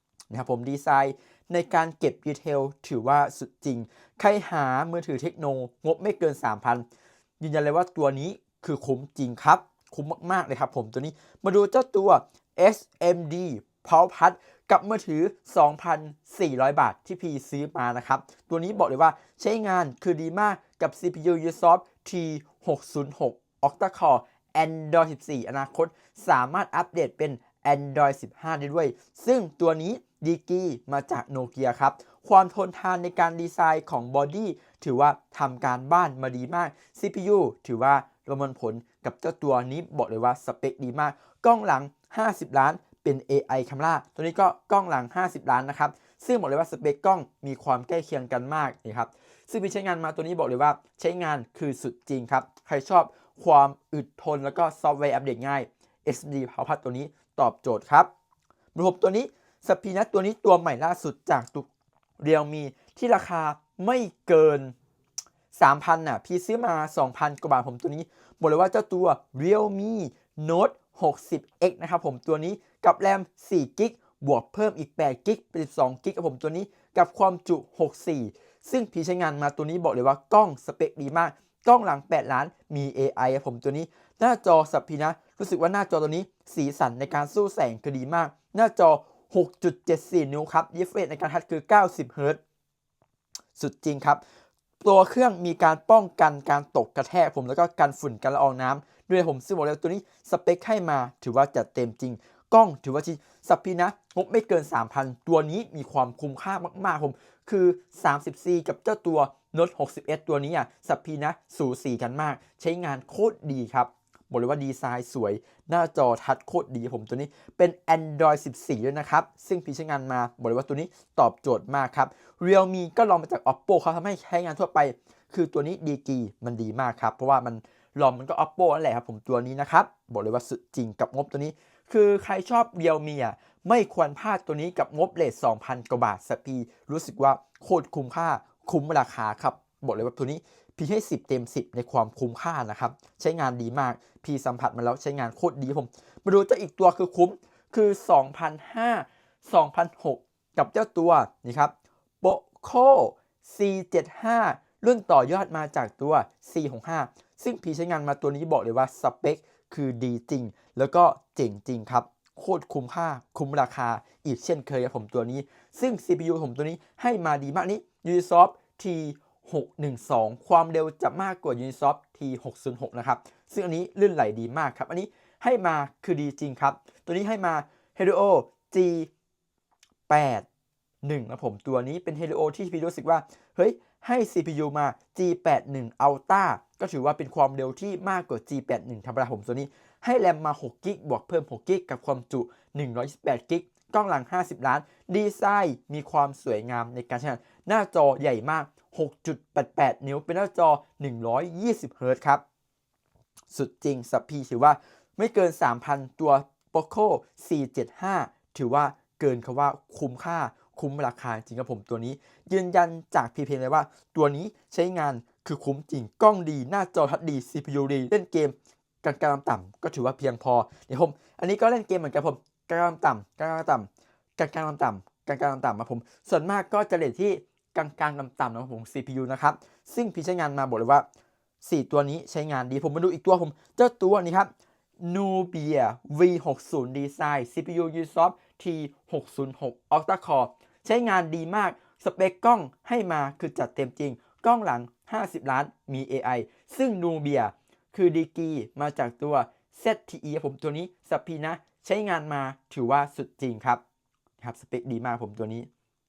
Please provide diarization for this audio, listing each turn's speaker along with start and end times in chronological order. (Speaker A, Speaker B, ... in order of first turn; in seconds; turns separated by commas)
Speaker A: 0.3-6.8, Speaker A: 7.4-58.1, Speaker A: 58.7-61.7, Speaker A: 62.2-64.7, Speaker A: 65.5-92.4, Speaker A: 93.5-94.2, Speaker A: 94.8-179.1, Speaker A: 180.1-180.4, Speaker A: 181.0-202.4, Speaker A: 203.5-231.1, Speaker A: 231.6-253.8, Speaker A: 254.4-255.7